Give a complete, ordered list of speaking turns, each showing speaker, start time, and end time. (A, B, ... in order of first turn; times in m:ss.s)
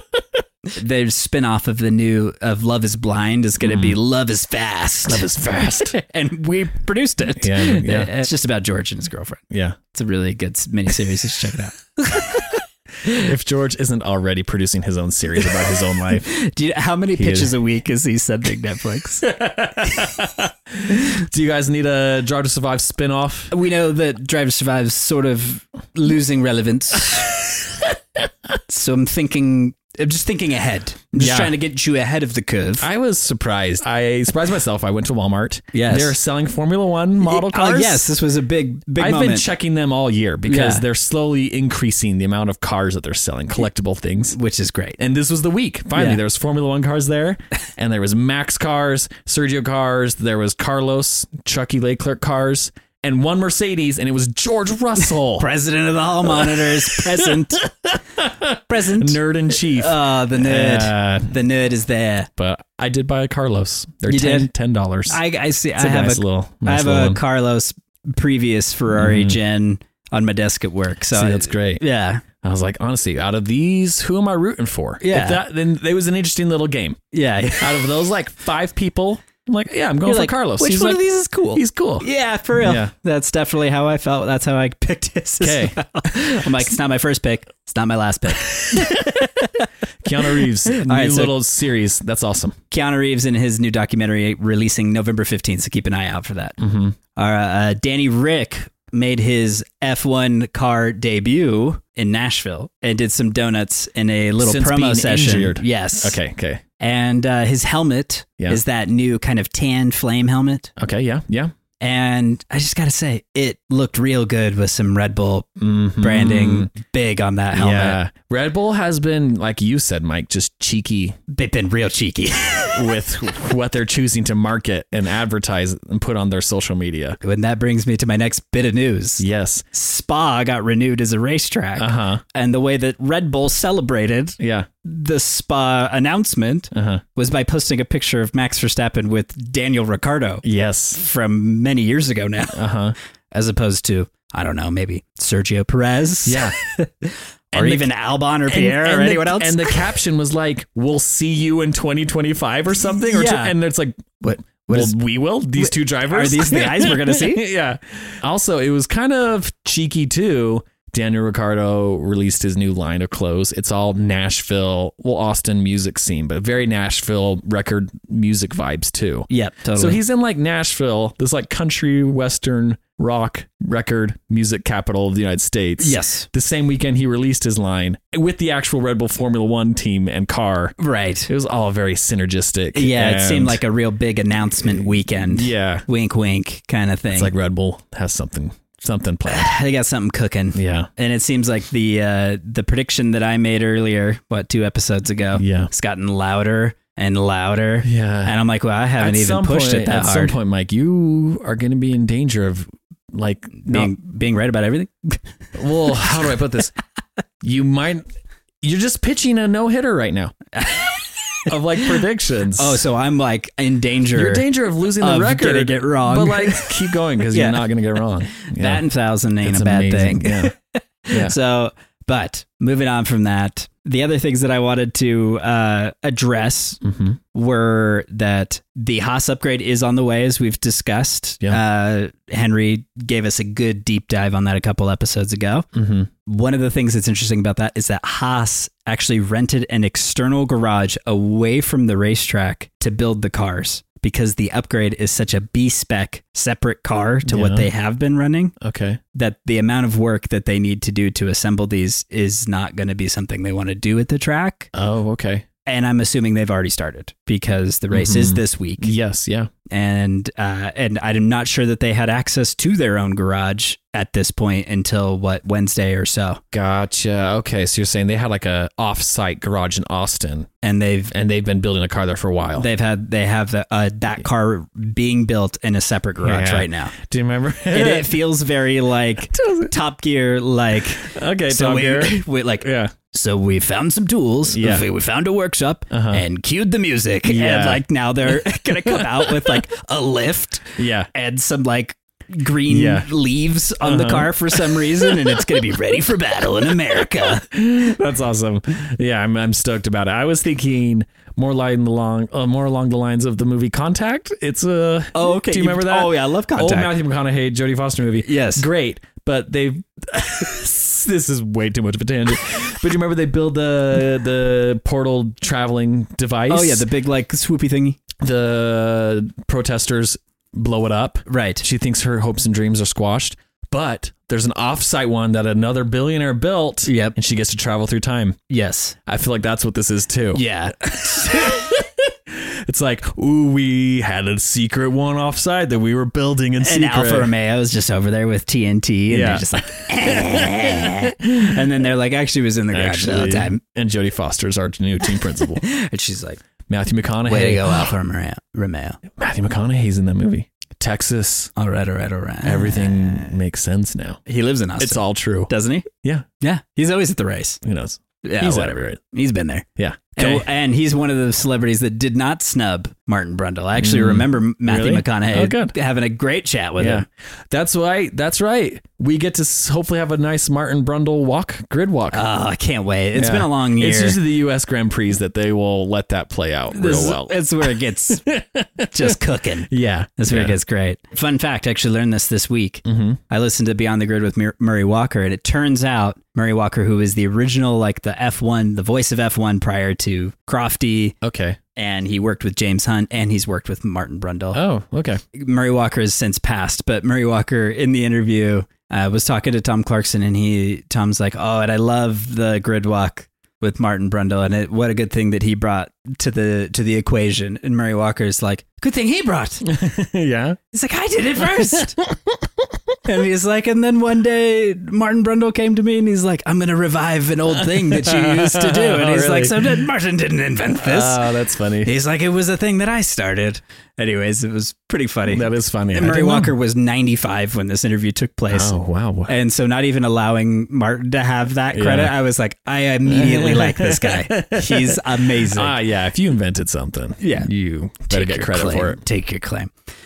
0:00.7-0:05.3 A
0:03.6-0:04.0 B
0:05.0-0:06.0 B
0:05.8-0:13.1 A
0:07.4-0:08.1 B
0:09.5-0:09.8 B
0:13.1-0:16.3 B
0:16.2-0:19.3 A
0:17.2-0:17.5 B
0:19.2-0:23.5 B
0:23.5-0:27.4 A
0:27.5-0:27.8 B
0:28.7-0:32.9 A
0:31.2-0:31.5 B
0:32.8-0:38.0 B
0:35.7-0:36.2 A
0:37.2-0:39.5 A
0:39.0-0:44.4 B
0:40.5-0:40.8 A
0:44.3-0:45.0 A
0:45.0-0:55.5 B
0:46.0-0:46.2 A
0:55.4-0:57.6 A
0:56.2-1:01.3 B
0:58.7-1:02.3 A
1:02.4-1:05.2 B
1:04.1-1:04.5 A
1:05.1-1:12.2 A
1:05.8-1:07.2 B
1:08.9-1:09.4 B
1:11.1-1:11.8 B
1:12.4-1:17.0 B
1:15.0-1:15.4 A
1:17.1-1:17.9 A
1:17.6-1:22.1 B
1:20.0-1:29.7 A
1:22.6-1:22.9 B
1:25.4-1:26.7 B
1:28.4-1:29.3 B
1:30.0-1:32.6 B
1:30.2-1:31.4 A
1:32.7-1:36.6 A
1:36.6-1:37.0 B
1:37.2-1:46.2 A
1:44.4-1:46.6 B
1:46.8-1:50.7 A
1:50.8-1:51.5 B
1:51.8-1:55.5 A
1:55.6-1:56.7 B
1:56.0-1:58.0 A
1:57.6-2:01.2 B
2:01.3-2:02.9 A
2:02.8-2:07.2 B
2:07.2-2:22.6 A
2:09.2-2:09.6 B
2:11.8-2:12.2 B
2:14.4-2:14.7 B
2:16.7-2:17.0 B
2:20.4-2:21.0 B
2:22.6-2:23.0 B
2:23.3-2:29.9 A
2:26.2-2:26.6 B
2:27.5-2:27.9 B
2:28.5-3:00.8 B
2:33.1-2:33.6 A
2:34.2-2:35.0 A
2:35.6-2:37.4 A
2:49.3-2:50.0 A
2:55.8-2:56.3 A
3:00.8-3:01.3 A
3:01.3-3:03.6 B
3:02.7-3:07.3 A
3:04.6-3:05.9 B
3:07.1-3:09.5 B
3:09.3-3:20.4 A
3:10.5-3:10.9 B
3:15.4-3:15.7 B
3:17.8-3:18.4 B
3:19.0-3:23.9 B
3:23.6-3:25.2 A
3:25.6-3:26.7 B
3:27.4-3:28.0 B
3:28.6-3:30.4 B
3:30.6-3:31.9 A
3:31.5-3:32.8 B
3:32.5-3:34.4 A
3:34.1-3:38.8 B
3:35.0-3:37.6 A
3:38.3-3:46.8 A
3:39.4-3:40.5 B
3:41.1-3:41.4 B
3:46.8-3:47.2 B
3:47.3-3:55.7 A
3:55.7-3:56.1 B
3:56.3-4:08.6 A
4:07.3-4:07.7 B
4:08.6-4:09.0 B
4:09.2-4:14.7 A
4:14.7-4:15.5 B
4:15.7-4:18.9 A
4:17.9-4:19.5 B
4:19.7-4:26.4 A
4:26.5-4:30.5 B
4:30.6-4:31.1 A
4:31.1-4:32.7 B
4:32.6-4:36.9 A
4:36.2-4:38.2 B
4:37.7-4:57.5 A
4:39.3-4:39.7 B
4:41.0-4:42.9 B
4:44.5-4:44.9 B
4:45.9-4:46.2 B
4:47.3-4:47.8 B
4:48.5-4:49.6 B
4:50.8-4:51.1 B
4:52.7-4:53.1 B
4:53.8-4:55.4 B
4:57.0-5:16.9 B
5:05.1-5:06.9 A
5:08.2-5:08.7 A
5:16.5-5:18.0 A
5:18.2-5:28.4 B
5:21.3-5:21.6 A
5:26.9-5:27.2 A
5:28.5-5:29.0 A
5:29.1-5:37.3 B
5:30.3-5:31.5 A
5:36.6-5:43.6 A
5:39.1-5:41.6 B
5:42.7-5:45.6 B
5:45.4-5:46.4 A
5:46.7-5:47.9 B
5:47.3-5:49.0 A
5:49.1-5:51.5 B
5:51.6-5:53.4 A
5:52.4-5:54.2 B
5:54.3-5:55.9 A
5:54.8-5:56.3 B
5:56.4-5:57.6 A
5:57.6-5:59.0 B
5:58.2-6:07.1 A
5:59.8-6:00.5 B
6:03.8-6:05.7 B
6:06.8-6:12.2 B
6:12.1-6:14.2 A
6:13.2-6:20.6 B
6:16.7-6:18.2 A
6:18.9-6:31.2 A
6:22.8-6:23.2 B
6:31.2-6:31.6 B
6:31.8-6:34.6 A
6:34.5-6:35.2 B
6:35.3-6:49.7 A
6:49.7-6:50.6 B
6:50.7-6:52.0 A
6:51.5-6:52.5 B
6:53.0-7:08.8 A
6:57.5-6:59.9 B
7:00.8-7:01.9 B
7:05.3-7:06.5 B
7:08.5-7:09.3 B
7:09.3-7:15.8 A
7:11.7-7:12.2 B
7:13.1-7:19.0 B
7:17.2-7:17.5 A
7:18.1-7:19.7 A